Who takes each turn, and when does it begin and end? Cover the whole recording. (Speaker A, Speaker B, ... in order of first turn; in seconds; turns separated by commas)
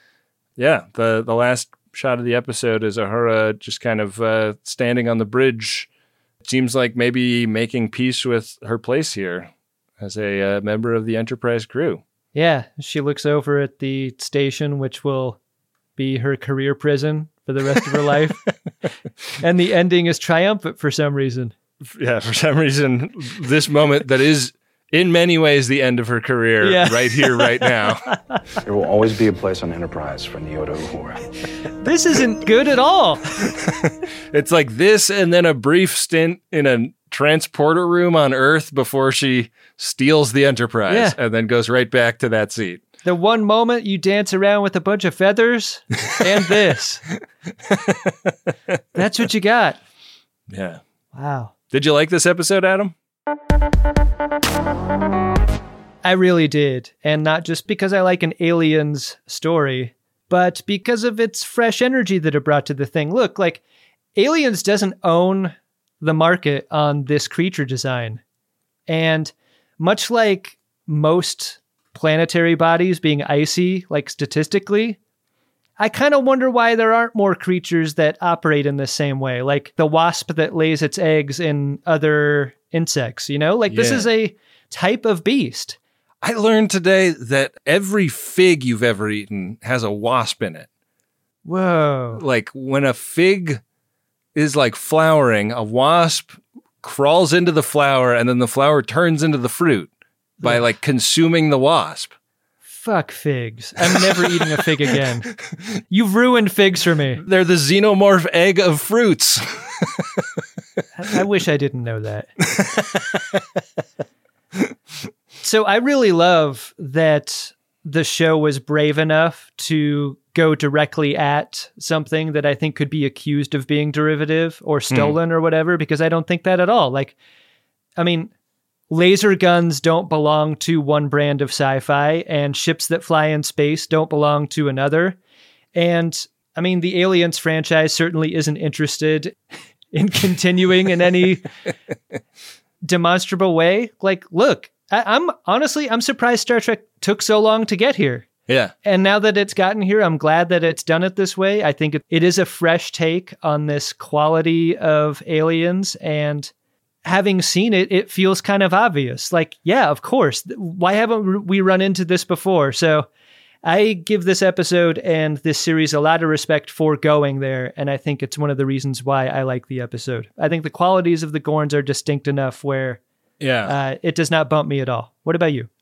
Speaker A: 0.6-5.9, Speaker A: 6.4-12.0, Speaker B: 12.3-15.4, Speaker B: 16.0-18.4, Speaker B: 19.4-21.5, Speaker A: 21.8-28.1, Speaker B: 26.6-27.8, Speaker C: 28.6-31.2, Speaker B: 31.8-33.2, Speaker A: 33.8-42.8, Speaker B: 40.9-41.2, Speaker B: 43.0-47.0, Speaker A: 47.7-48.4, Speaker B: 49.0-49.8, Speaker A: 50.5-50.8, Speaker B: 51.1-51.5, Speaker A: 51.7-52.9, Speaker B: 56.0-63.6, Speaker B: 64.2-68.2, Speaker B: 68.9-75.0, Speaker B: 75.8-85.8, Speaker A: 83.7-84.1, Speaker A: 86.2-90.7, Speaker B: 91.5-92.2, Speaker A: 92.2-93.6, Speaker A: 94.3-102.1, Speaker B: 102.7-105.3, Speaker A: 103.9-104.5, Speaker B: 105.9-107.2, Speaker A: 107.2-110.2, Speaker B: 111.0-112.3, Speaker A: 112.6-113.4, Speaker B: 115.4-127.2, Speaker A: 124.9-125.2, Speaker B: 128.0-128.3, Speaker B: 128.9-135.2, Speaker B: 135.8-139.4, Speaker B: 139.9-141.4, Speaker B: 142.8-148.3, Speaker A: 148.5-148.8, Speaker B: 148.8-156.5, Speaker B: 157.1-163.1, Speaker B: 163.6-173.0, Speaker A: 173.4-173.8, Speaker B: 173.7-175.7